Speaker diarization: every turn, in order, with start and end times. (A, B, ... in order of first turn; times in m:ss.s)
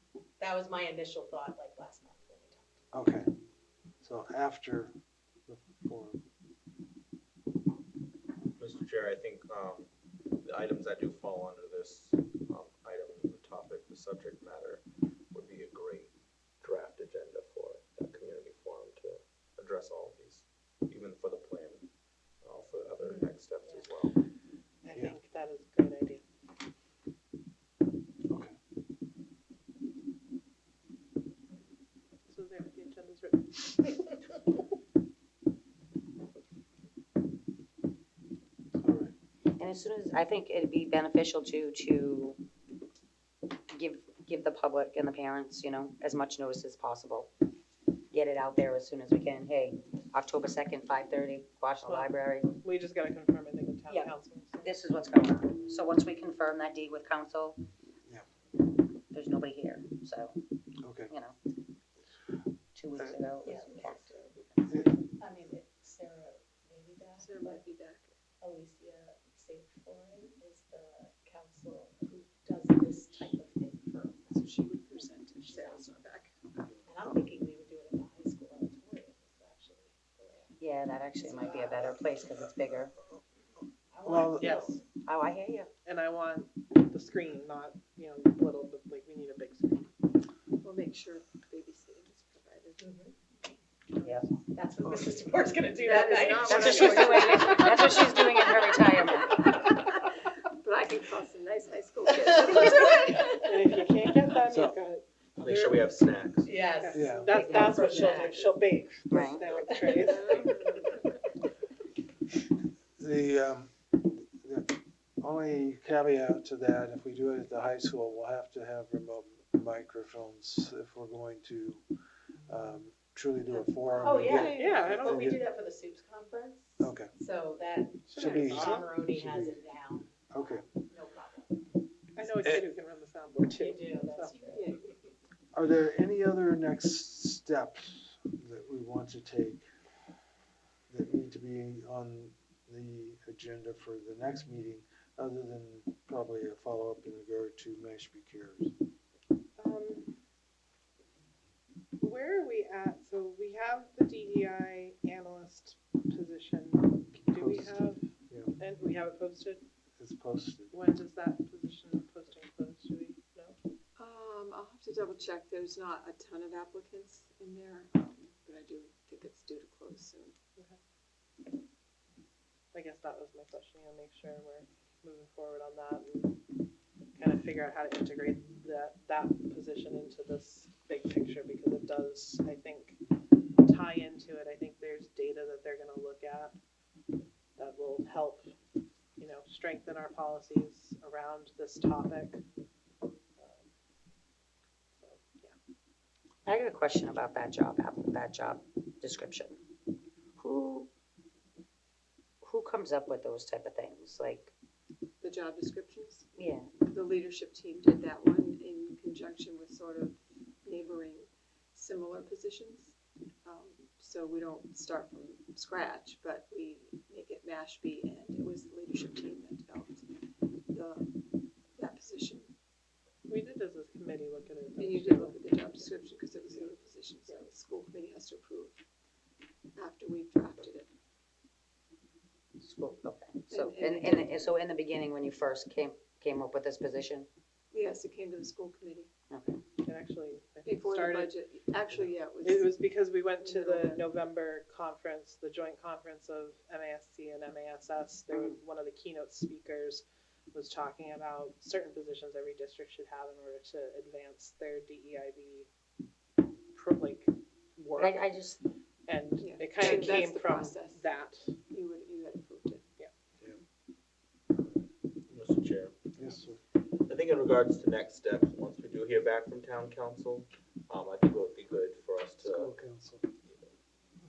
0:00.4-0:02.8 A
0:02.9-0:03.3 B
0:04.0-0:04.9 B
0:05.5-0:06.2 B
0:08.6-0:09.9 C
0:10.4-0:21.8 C
0:22.4-0:24.1 C
0:24.8-0:26.2 D
0:28.3-0:28.5 B
0:32.3-0:34.1 D
0:38.8-0:39.1 B
0:39.5-0:42.4 E
0:43.7-0:47.3 E
0:48.1-0:52.6 E
0:51.8-0:54.7 D
0:53.9-0:57.6 E
0:59.1-1:00.4 E
1:00.8-1:01.1 B
1:01.1-1:01.3 E
1:02.7-1:04.8 E
1:03.4-1:07.6 A
1:07.2-1:08.2 F
1:08.4-1:14.5 A
1:14.3-1:16.3 F
1:15.4-1:16.0 A
1:16.8-1:20.6 A
1:20.6-1:22.9 E
1:21.2-1:21.8 A
1:23.9-1:24.8 A
1:24.0-1:24.6 B
1:24.4-1:24.8 D
1:25.0-1:25.7 E
1:25.8-1:29.9 D
1:30.6-1:32.8 F
1:32.8-1:33.1 A
1:34.0-1:38.0 A
1:34.0-1:34.3 E
1:35.8-1:38.0 D
1:35.9-1:39.5 E
1:39.2-1:43.2 F
1:42.1-1:44.3 A
1:43.3-1:45.9 D
1:44.5-1:44.8 B
1:45.4-1:46.5 C
1:46.4-1:48.6 A
1:46.7-1:50.6 D
1:46.9-1:47.4 B
1:47.2-1:48.4 E
1:49.1-1:50.0 E
1:49.6-1:50.6 A
1:50.1-1:51.0 F
1:53.0-2:01.8 B
2:02.5-2:05.4 B
2:03.5-2:11.6 A
2:04.2-2:04.6 F
2:04.4-2:05.4 D
2:06.8-2:07.1 B
2:08.1-2:10.7 B
2:08.1-2:08.8 D
2:12.2-2:14.3 D
2:12.2-2:12.6 B
2:13.4-2:15.1 A
2:14.5-2:14.8 F
2:15.5-2:19.6 B
2:20.9-2:28.7 B
2:29.6-2:30.1 D
2:32.0-2:38.0 D
2:37.3-2:38.5 B
2:38.6-2:39.6 D
2:40.0-2:40.7 B
2:40.7-2:43.6 D
2:44.0-2:50.4 F
2:52.7-2:56.4 D
2:57.2-3:03.0 D
3:03.6-3:06.6 D
3:07.6-3:08.5 D
3:09.2-3:12.4 D
3:13.4-3:13.7 D
3:15.0-3:15.5 D
3:16.4-3:19.6 E
3:20.4-3:20.9 E
3:22.4-3:24.5 E
3:25.2-3:26.3 F
3:26.4-3:26.7 E
3:26.9-3:32.9 F
3:33.4-3:40.1 F
3:40.7-3:41.1 F
3:41.7-3:42.5 F
3:43.3-3:45.8 D
3:44.8-3:48.8 F
3:49.8-3:50.9 F
3:52.6-3:57.3 E
3:53.5-3:54.4 F
3:57.7-3:59.1 F
3:59.3-3:59.6 E
3:59.8-4:01.4 D
4:00.6-4:02.8 F
4:02.4-4:10.0 D
4:03.4-4:04.0 F
4:08.3-4:08.6 E
4:10.5-4:15.7 D
4:16.7-4:18.3 D
4:17.9-4:18.6 E
4:19.1-4:21.5 D
4:19.4-4:21.0 F
4:21.7-4:22.8 F
4:25.3-4:26.0 C
4:26.2-4:26.6 B
4:27.0-4:32.7 C
4:32.4-4:33.2 B